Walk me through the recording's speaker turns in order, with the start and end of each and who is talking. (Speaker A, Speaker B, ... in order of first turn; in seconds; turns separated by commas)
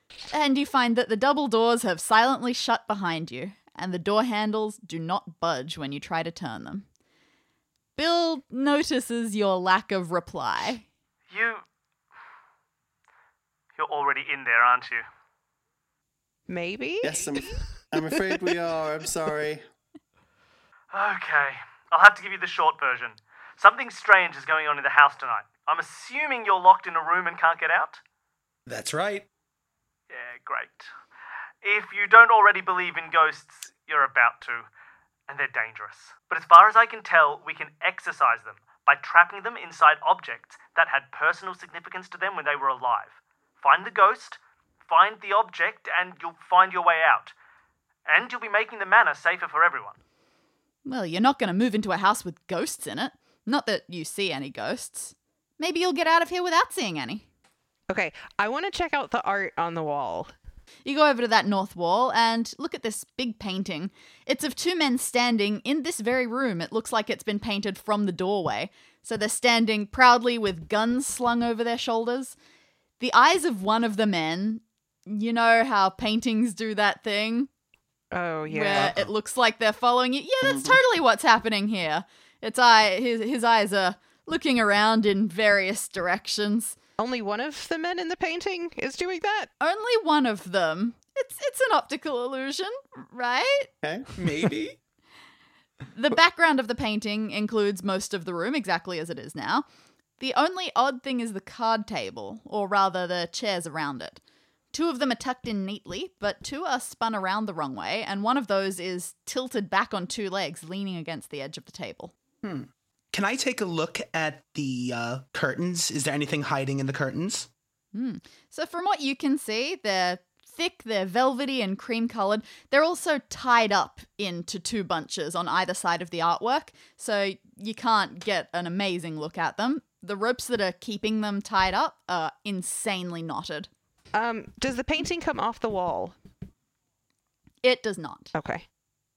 Speaker A: 0.3-6.9, Speaker A: 8.0-10.8, Speaker B: 11.3-11.6, Speaker B: 13.8-15.0, Speaker C: 16.5-17.6, Speaker D: 17.0-19.6, Speaker B: 20.9-28.0, Speaker E: 28.7-29.3, Speaker B: 30.1-30.9, Speaker B: 31.6-34.7, Speaker B: 35.3-47.3, Speaker B: 48.1-50.0, Speaker A: 50.9-57.2, Speaker C: 57.9-60.3, Speaker A: 60.9-72.4, Speaker A: 73.0-77.5, Speaker C: 78.1-79.0, Speaker A: 78.5-86.8, Speaker D: 80.4-80.8, Speaker C: 87.0-89.5, Speaker A: 89.6-93.7, Speaker D: 93.8-94.1, Speaker E: 94.2-94.8, Speaker A: 95.9-99.7, Speaker A: 100.2-104.2, Speaker A: 104.7-112.1, Speaker E: 112.4-117.5, Speaker A: 117.9-133.7, Speaker C: 134.1-136.2, Speaker A: 137.6-138.3, Speaker C: 138.3-138.7